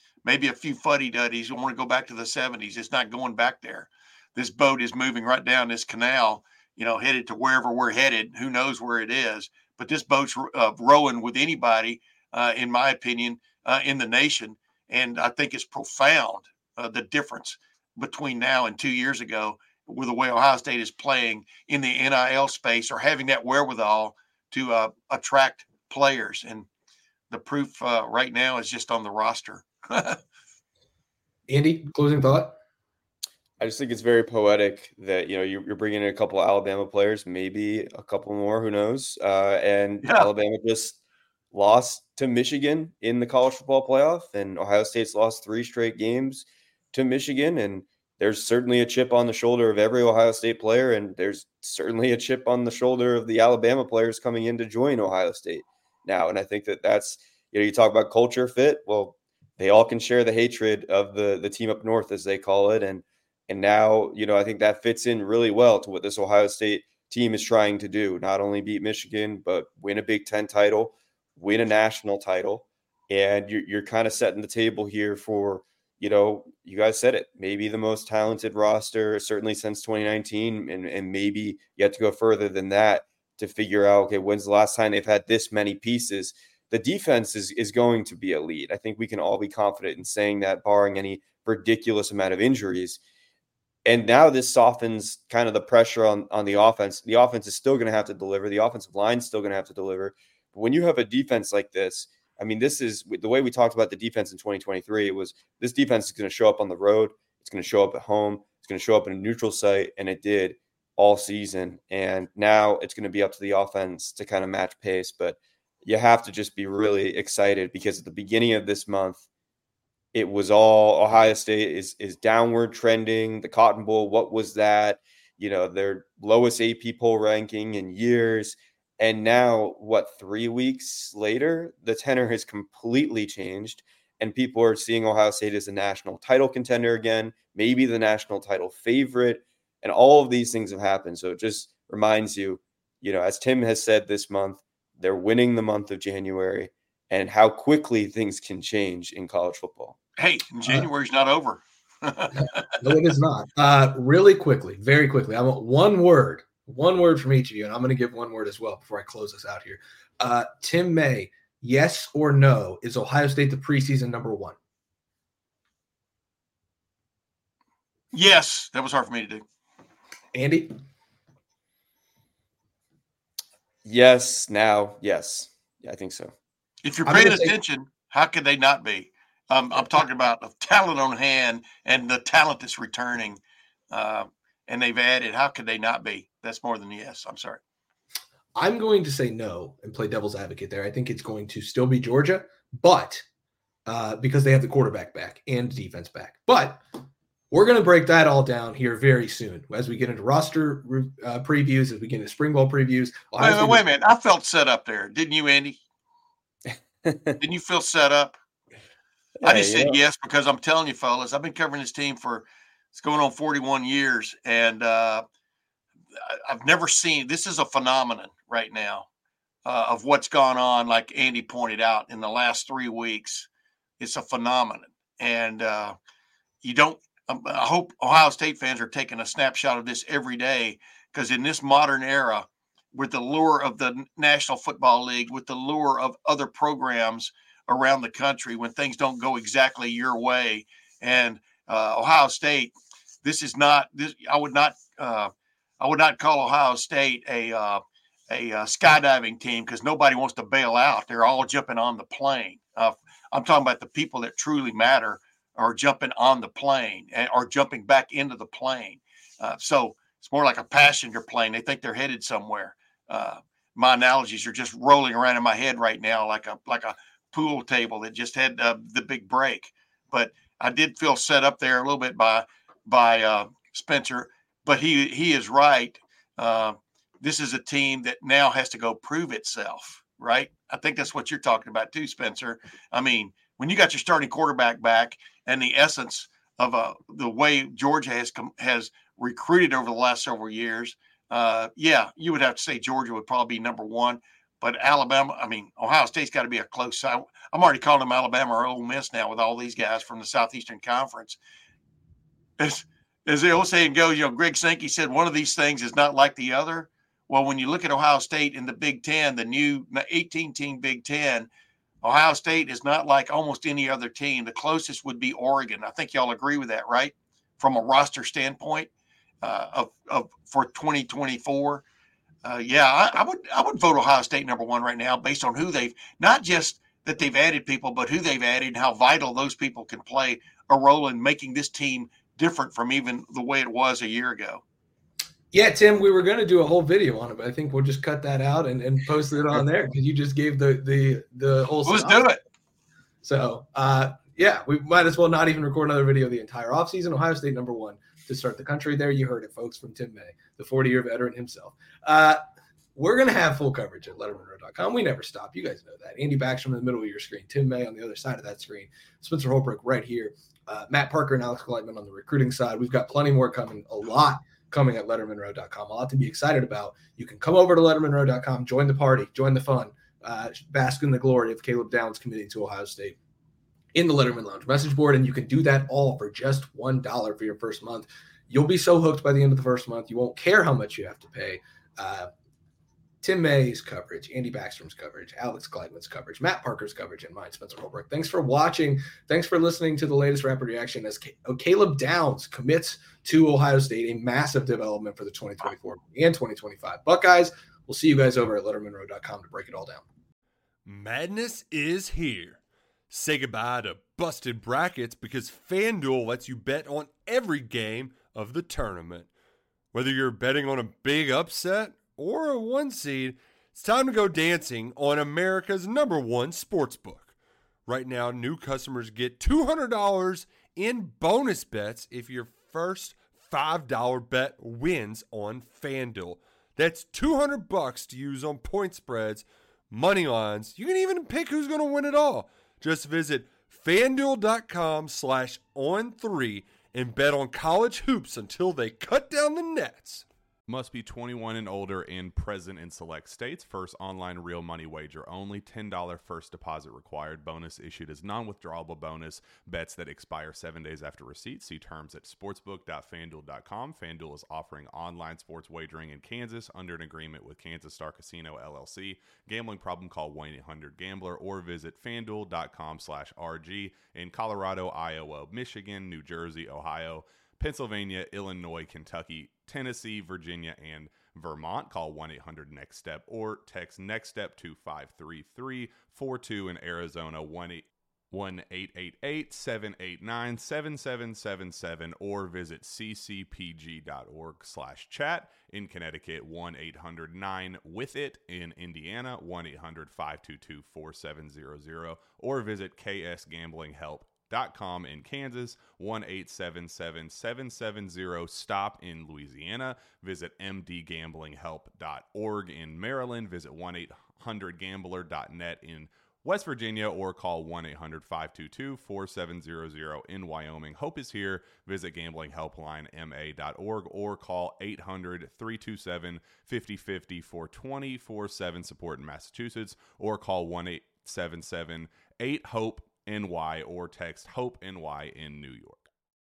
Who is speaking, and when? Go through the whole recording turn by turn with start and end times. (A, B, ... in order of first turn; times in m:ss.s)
0:00.2-0:26.7 A
0:27.3-0:30.2 A
0:31.5-0:32.6 B
0:33.6-0:41.0 C
0:40.0-0:40.3 A
0:41.5-1:33.0 C
1:33.9-1:59.2 C
2:00.1-2:30.0 C
2:30.2-2:33.0 A
2:32.4-2:44.6 B
2:48.1-2:49.4 A
2:50.3-2:50.7 B
2:53.8-2:56.3 C
2:56.8-3:03.4 A
2:57.1-2:57.5 B
3:03.9-3:07.6 A
3:08.6-3:13.2 B
3:13.9-3:16.8 B
3:17.5-3:23.8 B
3:23.4-3:25.8 A
3:27.0-3:27.4 C
3:27.4-3:28.4 A
3:29.4-3:30.0 C
3:29.4-3:35.2 A
3:36.3-3:39.1 A
3:39.6-3:43.5 A
3:44.0-3:46.0 A
3:46.6-5:01.4 A
5:02.6-5:11.5 A
5:12.0-5:18.9 A
5:19.4-5:21.8 A
5:22.4-5:34.6 A
5:35.5-5:42.3 B
5:41.8-5:42.4 A
5:43.2-5:52.4 B
5:53.0-6:13.2 B
6:14.0-6:22.3 B
6:23.2-6:40.0 B
6:40.9-6:49.3 D
6:49.9-6:57.3 D
6:57.9-7:20.3 D
7:20.7-8:46.0 E